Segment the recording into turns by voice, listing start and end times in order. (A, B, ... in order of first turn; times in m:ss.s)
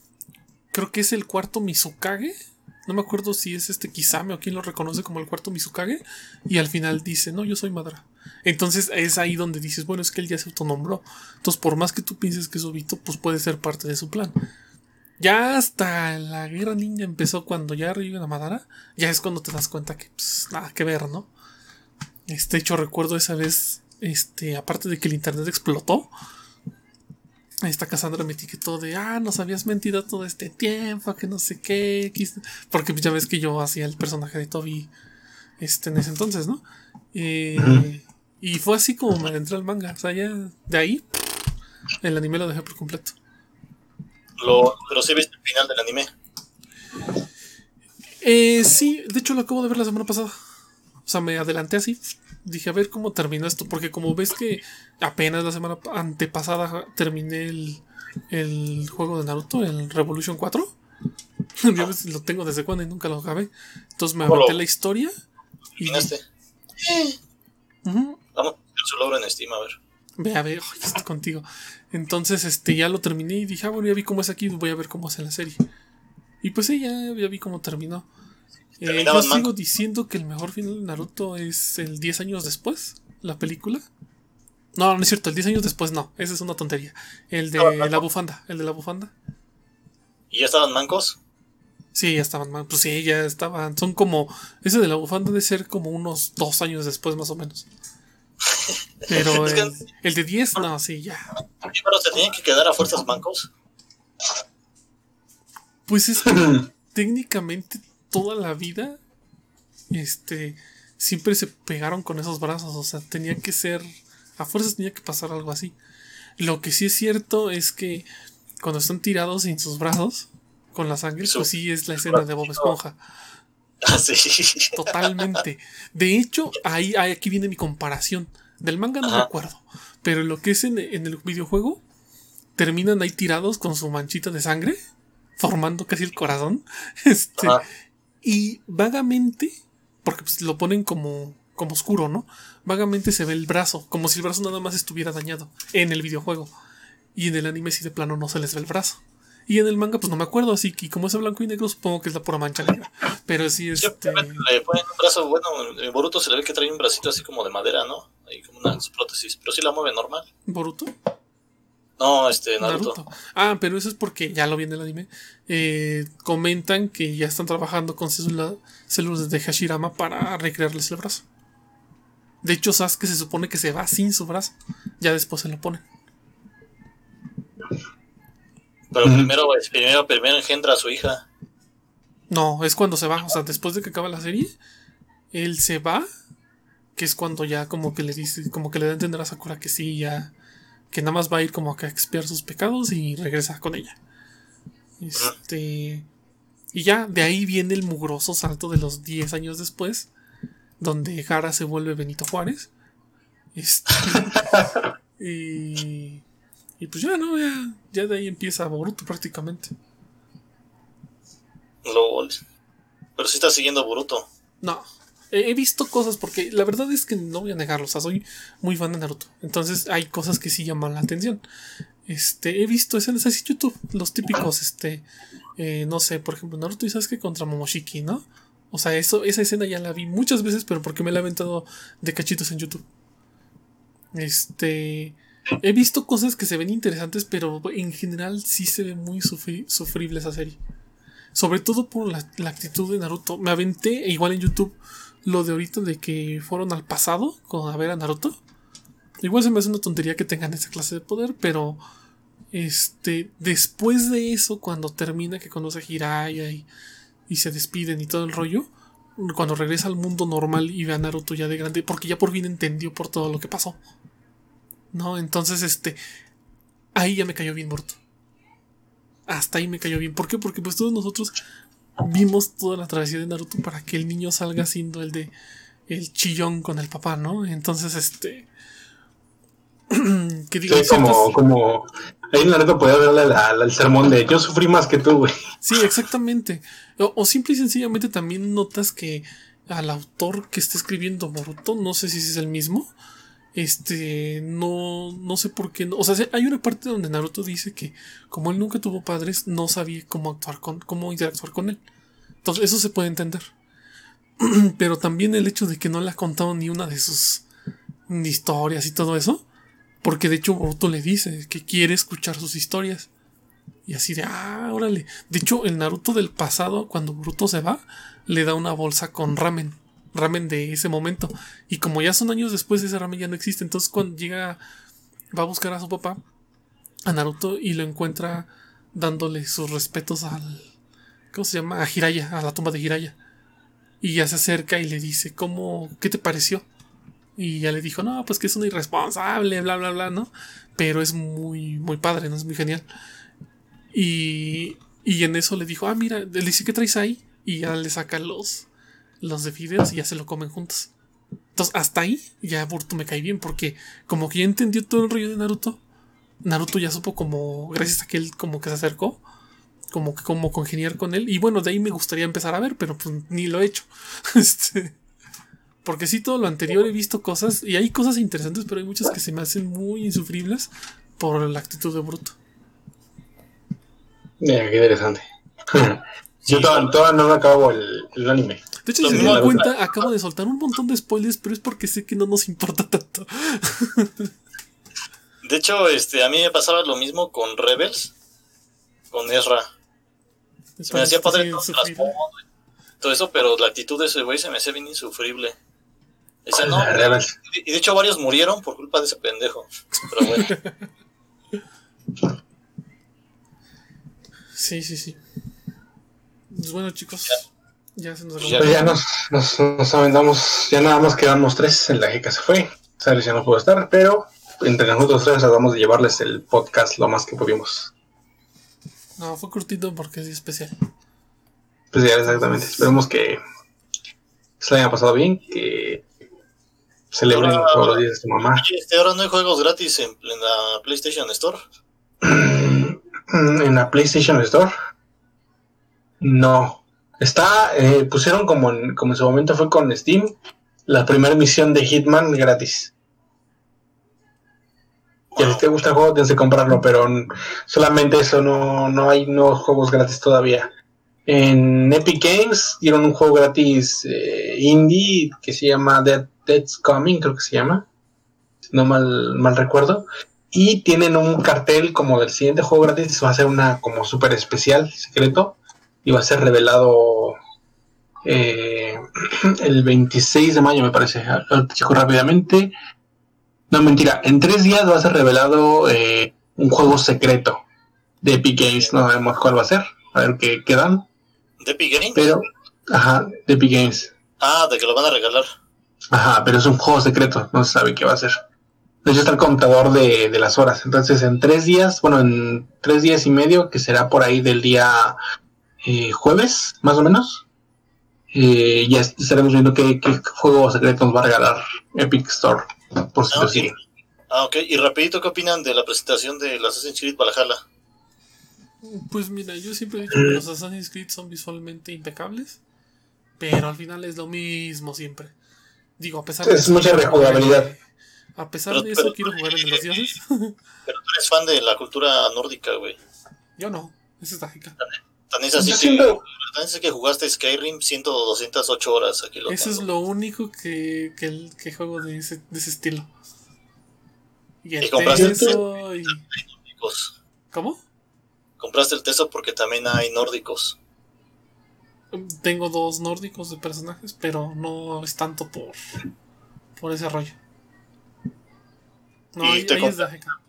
0:00.7-0:02.3 A
0:02.8-0:14.4 A
0:15.2-0:21.3 A
0:22.3-0:26.1 A
0:27.6-0:34.9 A
0:35.6-0:36.6 A
0:37.1-0:41.0 A
0:37.6-0:37.9 B
0:42.0-0:43.1 A
0:44.4-0:46.1 C
0:48.2-0:50.3 A
0:51.0-1:00.7 A
1:01.6-1:05.1 A
1:04.2-1:04.6 C
1:05.8-1:06.1 A
1:05.8-1:06.2 C
1:06.8-1:07.2 C
1:07.8-1:08.2 A
1:08.3-1:09.8 C
1:10.2-1:15.6 A
1:16.4-1:18.1 A
1:18.8-1:23.8 A
1:18.8-1:19.5 C
1:24.8-1:29.1 A
1:27.6-1:28.0 C
1:30.3-1:31.2 C
1:31.9-1:37.7 A
1:38.5-1:39.8 C
1:39.1-1:41.4 A
1:41.6-1:43.5 C
1:45.9-1:49.0 A
1:46.2-1:46.6 B
1:49.9-1:55.7 A
1:56.4-1:58.0 A
1:58.6-2:03.0 A
2:02.0-2:02.7 C
2:03.8-2:05.0 C
2:04.7-2:11.8 A
2:09.0-2:09.3 C
2:12.6-2:14.8 A
2:15.4-2:17.6 A
2:17.4-2:17.6 C
2:18.2-2:26.5 A
2:27.1-2:34.4 A
2:33.8-2:40.2 C
2:40.5-2:40.9 A
2:42.0-2:43.0 C
2:42.6-2:51.2 A
2:52.4-2:55.8 A
2:58.9-3:01.2 C
2:59.0-2:59.3 B
3:02.3-3:04.6 A
3:05.3-3:06.0 A
3:07.0-3:10.3 A
3:10.9-3:14.0 A
3:15.0-3:16.0 A
3:16.7-3:20.1 A
3:20.8-3:22.7 A
3:23.5-3:24.6 A
3:25.2-3:26.2 A
3:26.8-3:29.7 A
3:31.8-3:32.4 C
3:33.2-3:34.3 C
3:34.6-3:41.4 A
3:42.0-3:45.0 A
3:45.6-3:52.8 A
3:54.1-4:00.6 A
4:01.3-4:08.4 A
4:09.2-4:11.8 A
4:12.5-4:16.7 A
4:17.3-4:23.8 A
4:24.9-4:26.0 A
4:26.9-4:28.0 A
4:29.3-4:31.4 A
4:32.0-4:35.3 A
4:35.9-4:38.5 A
4:39.9-4:41.3 A
4:40.7-4:45.3 B
4:45.6-4:52.9 A
4:53.5-5:01.8 A
5:02.4-5:03.5 A
5:04.4-5:07.4 A
5:08.1-5:09.4 A
5:10.0-5:13.1 A
5:13.9-5:24.6 A
5:25.3-5:26.2 A
5:27.0-5:30.7 A
5:31.3-5:33.2 A
5:34.0-5:36.6 A
5:37.4-5:42.8 A
5:43.9-5:48.6 A
5:49.2-5:50.9 A
5:51.5-5:55.8 A
5:56.4-5:59.2 A
5:59.9-6:05.0 A
6:05.8-6:12.4 A
6:14.4-6:19.7 B
6:16.4-6:16.9 C
6:18.8-6:24.3 A
6:19.0-6:20.1 C
6:25.4-6:28.1 C
6:29.1-6:29.7 C
6:30.8-6:32.1 A
6:30.9-6:32.4 C
6:33.0-6:35.5 C
6:36.4-6:40.5 C
6:36.5-6:37.3 B
6:40.2-6:40.8 A
6:44.5-6:45.2 A
6:46.5-6:49.0 A
6:48.4-6:48.7 C
6:48.5-6:57.9 B
6:59.2-7:00.7 A
7:01.9-7:03.4 B
7:02.2-7:02.9 A
7:04.6-7:06.0 B
7:07.1-7:08.6 B
7:07.3-7:11.6 C
7:12.2-7:14.7 B
7:16.2-7:20.4 B
7:20.9-7:22.9 B
7:25.3-7:30.7 B
7:25.4-7:25.6 C
7:31.3-7:37.8 B
7:38.7-7:47.4 B
7:48.2-7:52.7 B
7:53.7-7:57.6 B
7:58.2-8:01.1 B
7:58.6-7:58.9 C
8:01.6-8:02.2 C
8:02.1-8:04.1 B
8:04.4-8:05.5 C
8:06.1-8:08.3 B
8:09.0-8:15.2 B
8:15.8-8:17.4 B
8:18.3-8:23.7 B
8:23.3-8:23.8 C
8:24.3-8:27.6 C
8:28.8-8:32.6 A
8:30.1-8:30.4 B
8:33.4-8:35.3 A
8:36.0-8:37.8 A
8:36.4-8:37.7 B
8:38.4-8:40.6 A
8:38.7-8:40.1 C
8:40.9-8:43.0 C
8:43.6-8:44.8 A
8:44.8-8:49.8 C
8:45.6-8:46.2 B
8:49.5-8:53.1 A
8:54.6-8:56.2 A
8:54.8-8:57.1 C
8:55.1-8:55.6 B
8:57.5-8:57.8 A
8:58.6-9:00.8 C
9:02.1-9:05.8 A
9:06.8-9:07.4 A
9:09.3-9:10.3 A
9:09.4-9:10.1 C